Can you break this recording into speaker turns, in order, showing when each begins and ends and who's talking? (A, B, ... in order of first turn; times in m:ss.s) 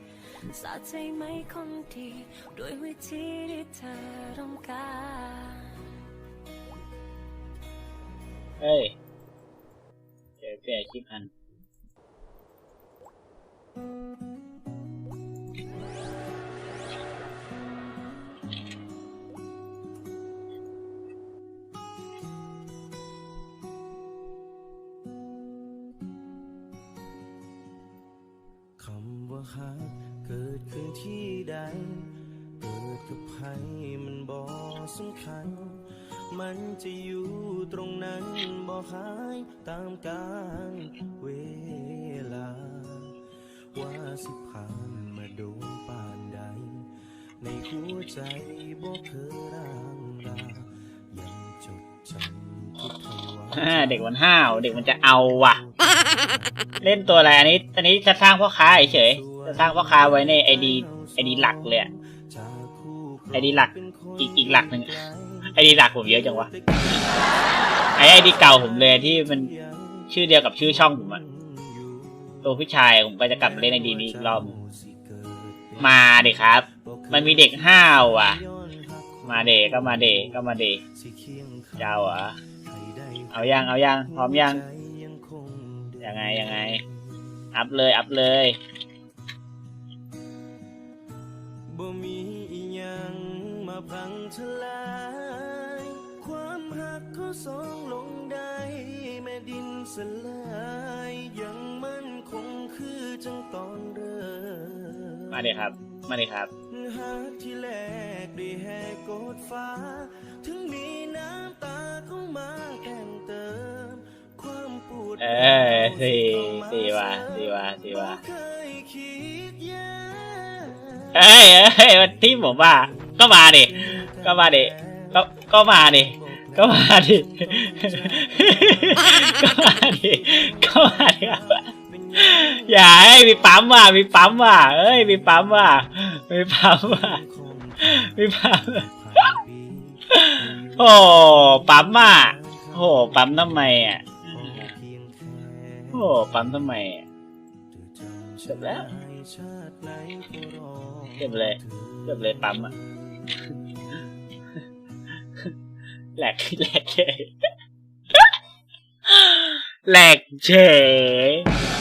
0:00.5-0:06.0 A
0:08.6-0:09.0 B
0:10.4-0:11.3 B
0:28.8-0:43.2 C
0:43.7-0:46.9 C
0:47.4-0:54.0 C
0:53.5-0:55.6 B
0:56.8-1:01.9 B
0:59.2-1:01.7 C
1:02.3-1:05.5 C
1:03.3-1:06.5 B
1:06.3-1:07.2 C
1:08.0-1:09.5 B
1:08.2-1:10.0 C
1:10.1-1:11.2 B
1:11.1-1:12.3 C
1:12.4-1:14.5 B
1:13.5-1:15.9 C
1:15.8-1:18.4 B
1:16.9-1:20.4 C
1:19.3-1:20.8 B
1:21.1-1:21.8 C
1:21.8-1:22.4 B
1:22.8-1:23.3 C
1:23.3-1:24.7 B
1:24.2-1:26.9 C
1:26.0-1:26.8 B
1:27.5-1:28.6 B
1:31.7-1:45.4 C
1:45.3-1:46.5 B
1:46.7-2:01.1 C
1:55.2-1:58.2 B
2:01.1-2:11.6 B
2:02.9-2:03.2 C
2:03.8-2:05.1 C
2:06.1-2:12.6 C
2:12.2-2:17.2 B
2:17.0-2:17.9 C
2:17.8-2:19.4 B
2:18.7-2:20.9 C
2:20.1-2:24.7 B
2:22.0-2:23.1 C
2:23.6-2:26.0 C
2:25.9-2:27.0 B
2:27.9-2:33.5 C
2:28.5-2:28.9 B
2:31.2-2:32.7 B
2:36.2-2:37.3 B
2:39.1-2:41.5 B